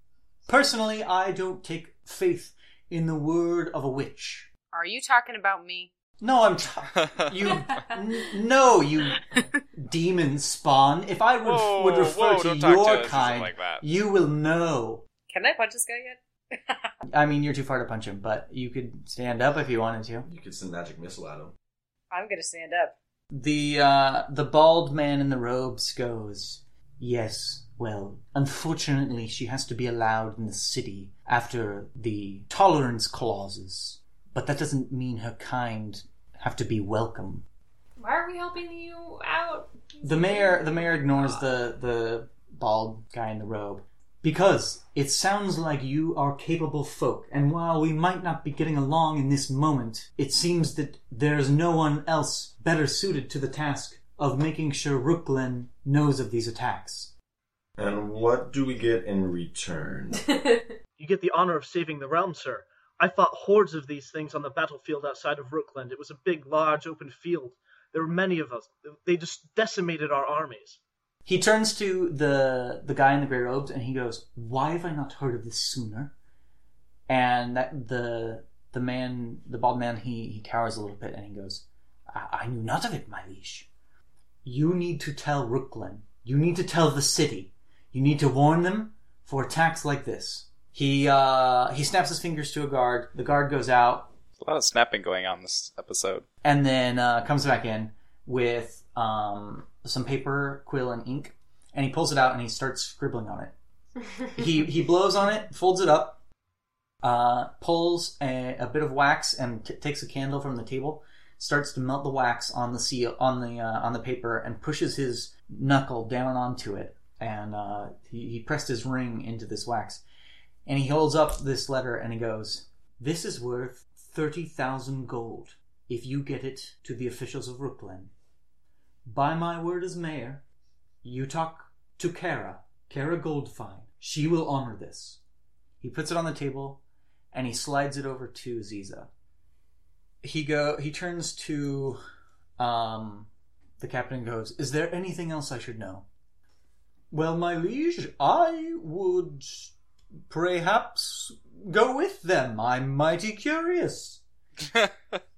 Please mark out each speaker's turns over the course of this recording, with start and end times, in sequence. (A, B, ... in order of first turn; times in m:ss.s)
0:00.5-0:04.5 A
0:04.7-0:05.9 B
0:06.2-0:15.0 A
0:11.4-0:13.8 C
0:15.3-0:16.9 B
0:17.1-0:20.3 A
0:20.3-0:21.6 D
0:22.1-0:23.0 B
0:23.3-0:37.4 A
0:38.0-0:41.4 E
0:40.0-0:57.1 A
0:57.8-1:00.3 D
1:01.0-1:10.8 F
1:11.3-1:16.1 A
1:17.1-1:23.7 A
1:24.4-1:34.1 A
1:34.4-1:36.2 C
1:36.4-1:43.5 A
1:44.3-1:46.2 A
1:47.0-2:00.0 A
2:00.7-2:08.1 A
2:09.0-2:10.4 A
2:11.0-2:15.2 A
2:15.8-2:16.8 A
2:17.3-2:19.1 A
2:20.2-2:22.0 A
2:22.6-2:23.3 A
2:23.8-2:26.0 A
2:27.1-2:29.7 A
2:30.3-2:34.2 A